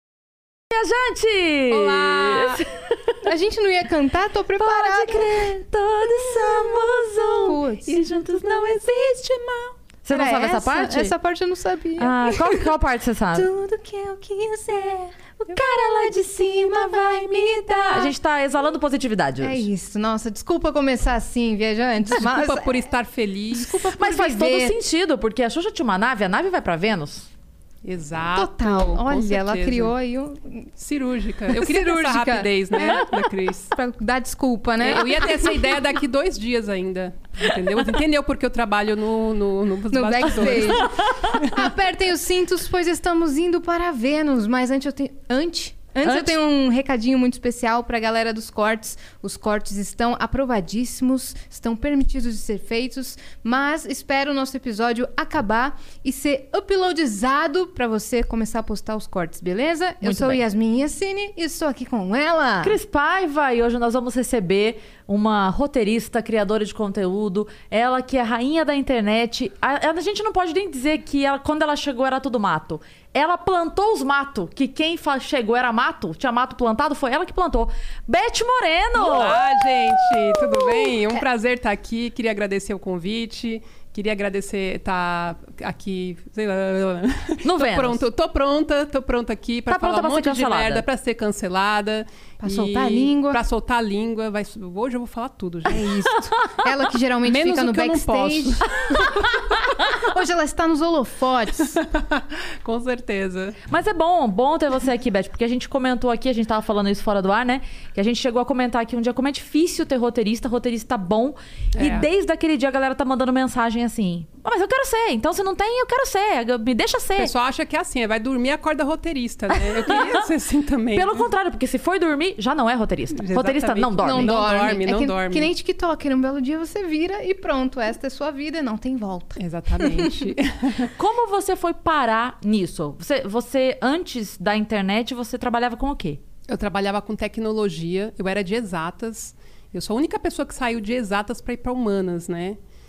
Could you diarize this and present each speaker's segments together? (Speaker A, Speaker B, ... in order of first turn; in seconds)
Speaker A: 0.7-3.2, 4.6-7.6, 10.0-11.1, 12.0-13.5, 17.7-19.7, 24.0-27.3, 40.4-41.5, 46.0-46.4, 60.0-60.4, 62.6-81.0, 87.4-88.0, 89.7-90.8, 98.9-99.3, 103.7-117.3, 119.5-120.3, 120.9-124.4, 131.0-136.2
Speaker B: 1.7-2.7, 6.3-9.8, 15.5-18.1, 22.1-24.3, 27.8-29.9, 30.8-33.7, 34.8-41.6, 79.0-95.9, 97.2-98.8, 101.8-103.6, 111.8-112.1, 117.2-121.3, 123.1-125.5, 129.4-130.9, 136.5-142.6
Speaker C: 3.2-5.5, 7.4-8.0, 10.1-12.6, 13.4-17.8, 19.4-22.9, 23.5-24.8, 28.4-30.7, 31.5-33.1, 33.7-35.7, 39.9-62.8, 92.4-93.4, 95.7-99.2, 99.9-101.8, 124.0-130.3